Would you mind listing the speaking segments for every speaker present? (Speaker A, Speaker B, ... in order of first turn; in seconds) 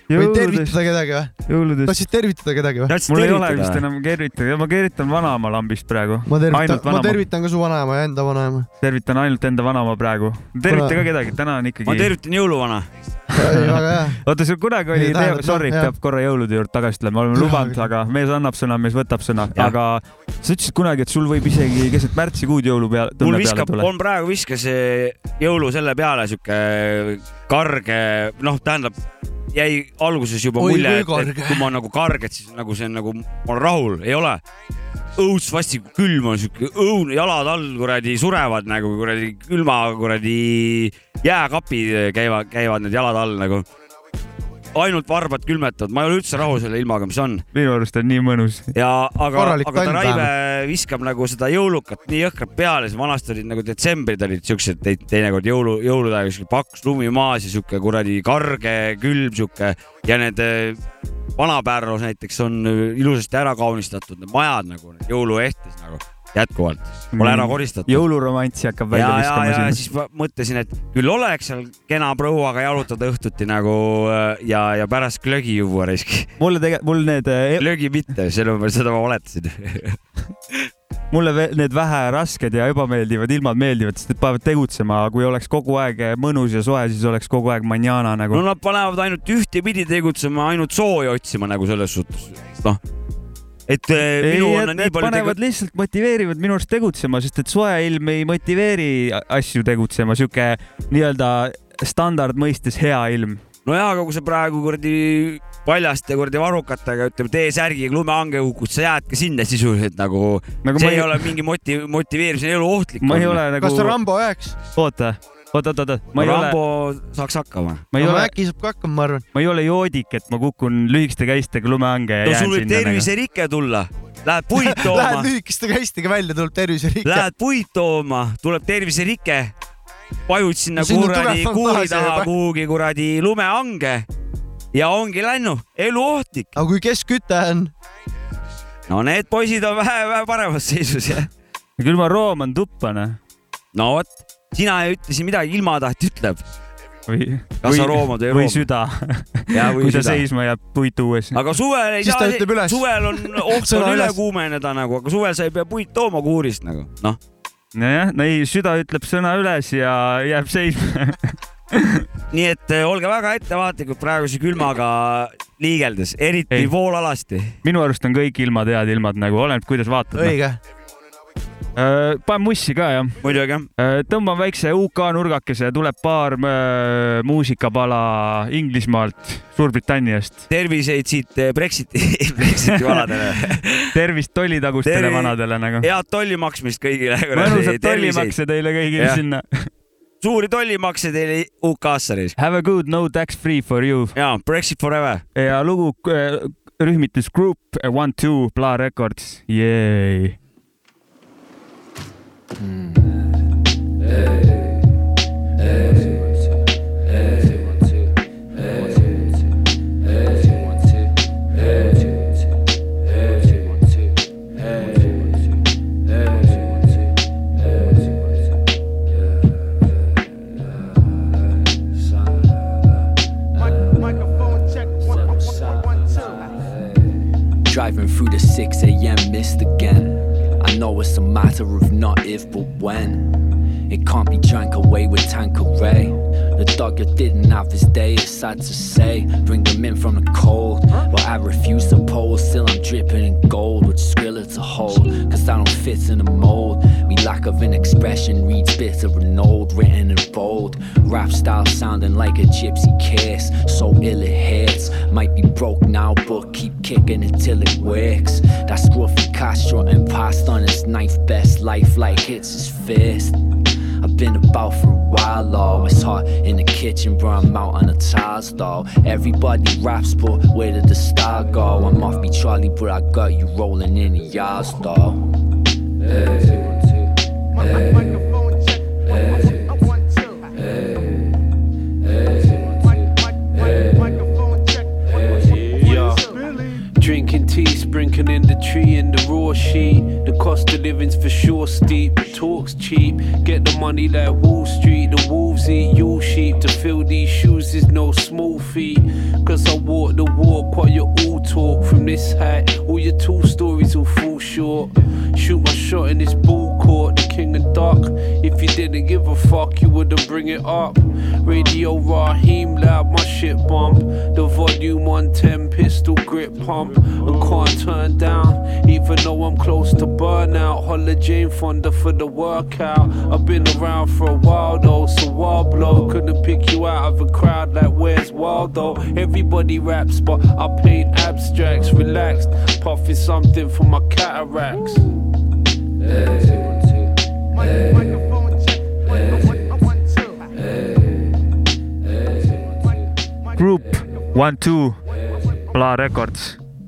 Speaker A: 0.1-0.8, 1.5-2.0, 3.1-7.2, 8.8-12.1, 13.4-23.9, 47.5-48.7, 67.1-69.8, 76.4-77.6, 81.1-88.4, 94.2-103.4, 110.6-111.3, 113.0-114.0, 114.8-116.6, 117.9-118.3, 119.3-123.1, 141.8-143.2, 147.1-151.4, 157.8-162.0, 167.6-170.4, 171.8-173.2, 173.8-180.4, 182.7-183.1, 183.9-185.9, 187.3-189.7, 192.4-194.2, 195.3-200.4, 343.6-345.0, 345.6-346.6
Speaker B: 0.1-1.3, 1.9-2.9, 6.3-8.7, 10.7-11.0, 13.4-14.2, 14.9-15.9, 17.4-17.9, 30.6-31.7, 49.4-50.3, 113.6-114.6, 118.0-119.2, 124.5-127.3, 130.8-132.3, 136.6-137.7, 152.0-154.2, 170.1-170.6
Speaker C: 2.9-3.8, 11.9-12.9, 23.2-28.9, 29.5-34.4, 35.1-43.6, 44.7-47.4, 48.7-60.8, 61.4-68.0, 68.9-76.3, 77.6-80.0, 88.3-92.8, 93.7-95.3, 103.6-113.4, 116.2-117.8, 122.2-125.3, 127.0-129.5, 130.3-134.1, 134.7-136.5, 138.9-141.3, 143.7-146.4, 147.6-148.7, 149.5-150.2, 151.3-157.2, 162.3-167.6, 173.2-173.7, 180.5-183.9, 184.9-188.4, 190.2-192.4, 194.1-195.2
Speaker D: 225.1-225.8, 227.6-233.3, 233.9-263.4, 264.0-275.2
Speaker E: 285.8-286.2, 286.9-335.1